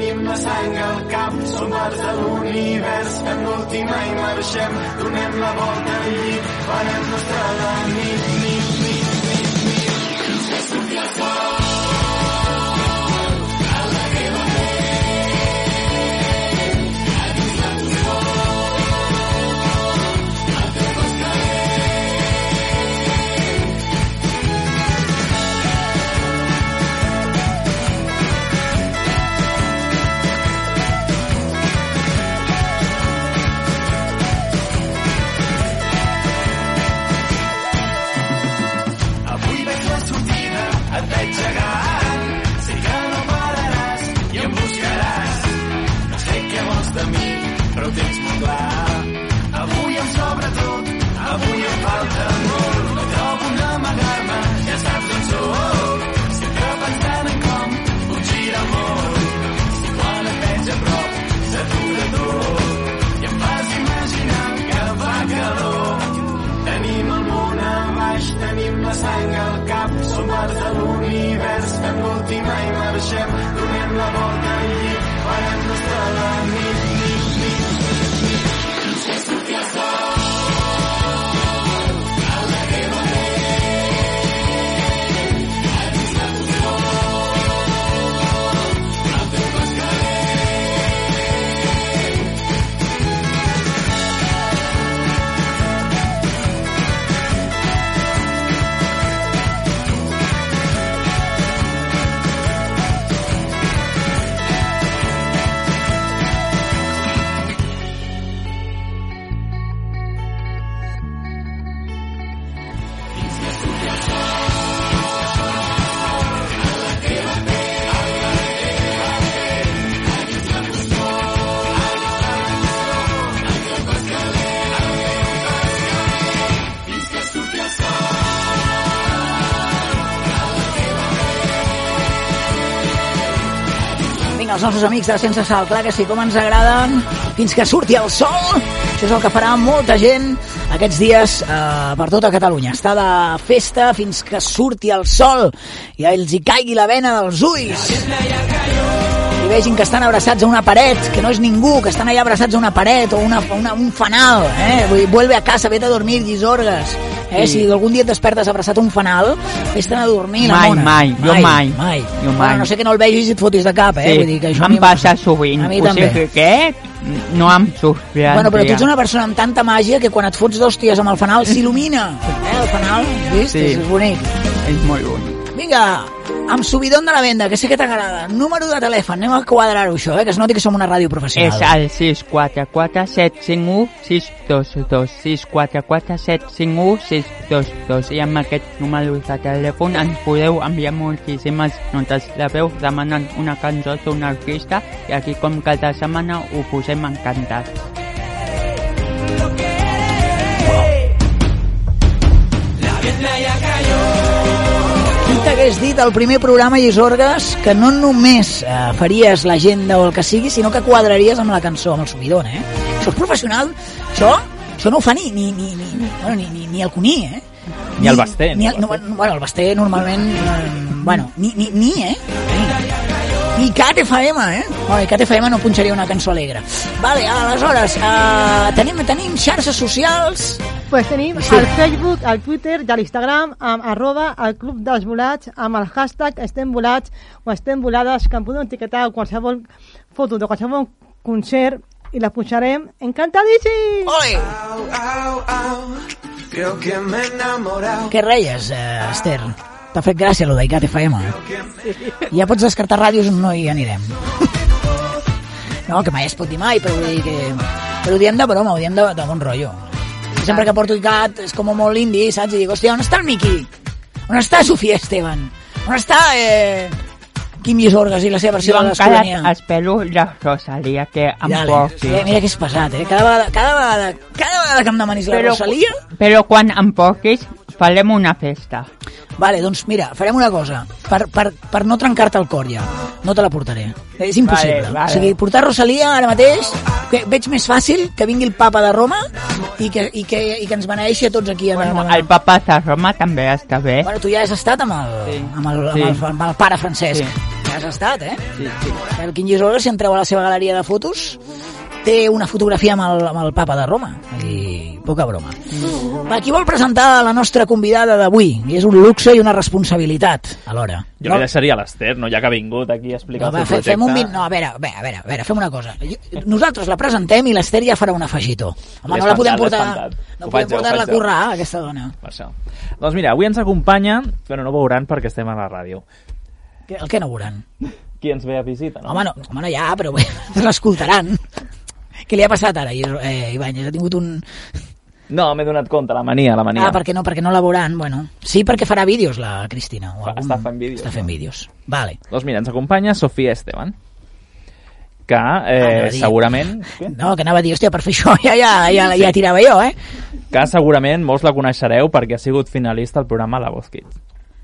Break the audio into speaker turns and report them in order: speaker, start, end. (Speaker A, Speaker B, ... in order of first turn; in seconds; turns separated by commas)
Speaker A: 0.9-2.8, Speaker A: 3.3-4.0, Speaker A: 39.4-40.4, Speaker A: 41.3-41.7, Speaker A: 42.7-45.0, Speaker A: 49.6-50.5, Speaker A: 51.4-53.7, Speaker A: 54.4-54.8, Speaker A: 60.4-60.9, Speaker A: 61.8-62.3, Speaker A: 64.0-65.3, Speaker A: 66.9-72.4, Speaker A: 72.9-74.1, Speaker B: 134.2-148.1, Speaker A: 148.0-149.0, Speaker B: 149.4-166.2, Speaker C: 157.4-157.7, Speaker C: 160.4-162.7, Speaker C: 164.0-168.9, Speaker B: 168.3-174.3, Speaker C: 173.5-173.8, Speaker C: 174.6-175.4, Speaker B: 175.5-181.8, Speaker C: 181.4-197.8, Speaker B: 200.6-200.9, Speaker A: 202.8-204.0, Speaker B: 205.2-217.4, Speaker B: 218.0-222.8, Speaker D: 218.0-219.0, Speaker B: 223.6-230.6, Speaker E: 230.9-244.2, Speaker B: 231.3-231.7, Speaker B: 244.1-244.6, Speaker A: 246.5-247.6, Speaker B: 248.1-251.4, Speaker B: 252.3-254.5, Speaker B: 255.9-263.7, Speaker B: 264.3-267.0, Speaker B: 267.6-269.5, Speaker C: 268.6-272.3, Speaker B: 271.4-276.0, Speaker C: 275.3-278.9, Speaker B: 279.4-292.3, Speaker C: 284.4-285.4, Speaker C: 291.7-294.1, Speaker B: 294.0-301.4, Speaker C: 295.3-296.2, Speaker C: 298.6-298.9, Speaker B: 302.0-311.5, Speaker D: 311.2-314.3, Speaker B: 313.4-322.1, Speaker D: 319.1-321.3, Speaker D: 322.2-326.0, Speaker B: 326.9-327.6, Speaker D: 328.2-329.2, Speaker B: 329.1-331.4, Speaker B: 332.2-334.4, Speaker D: 335.3-337.0, Speaker B: 336.8-342.2, Speaker D: 340.2-341.3, Speaker D: 342.3-343.9, Speaker D: 345.3-347.1, Speaker B: 345.8-350.0, Speaker D: 350.5-354.1